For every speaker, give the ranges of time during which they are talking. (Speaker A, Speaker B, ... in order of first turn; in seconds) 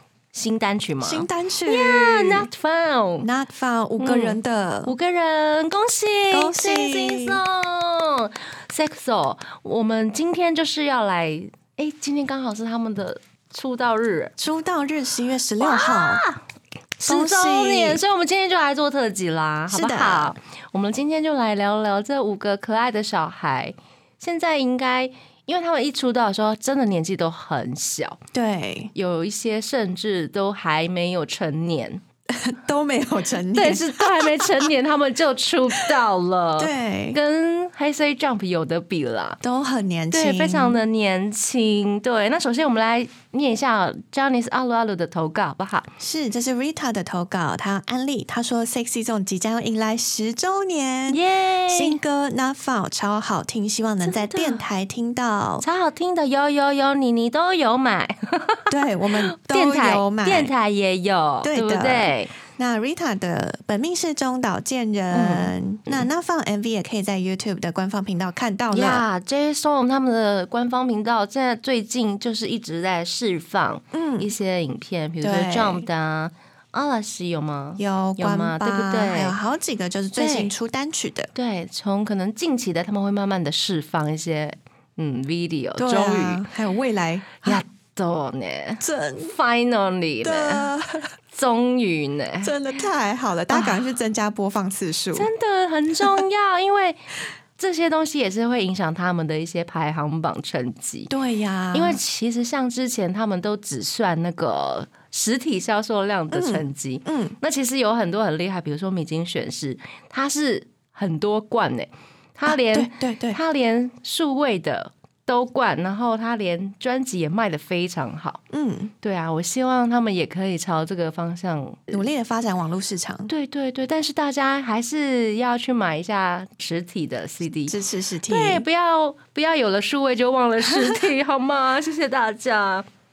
Speaker A: 0.3-3.3, 4.0-14.3, 15.6-16.4, 17.0-28.2, 28.9-32.0, 33.5-39.4, 40.1-45.9, 51.1-52.0, 54.0-54.6, 55.6-62.4, 65.1-66.1, 68.7-79.4, 80.2-80.5, 81.3-86.5, 87.4-90.7, 91.3-92.5, 93.5-93.9, 95.1-97.0, 97.6-101.1, 101.7-118.4, 119.0-122.0, 123.3-132.9
Speaker B: 1.0-2.5, 3.2-4.9, 6.3-7.4, 14.4-16.2, 17.1-18.0, 19.7-20.3, 28.3-28.9, 32.3-34.7, 36.6-37.2, 39.4-40.8, 46.0-55.6, 58.7-60.5, 61.4-69.0, 73.9-74.3, 75.2-75.8, 77.8-81.3, 85.8-87.6, 88.8-89.3, 90.2-91.1, 92.4-95.3, 101.1-102.0, 106.3-107.4, 112.5-113.4, 118.5-118.9, 121.9-123.3, 127.7-128.7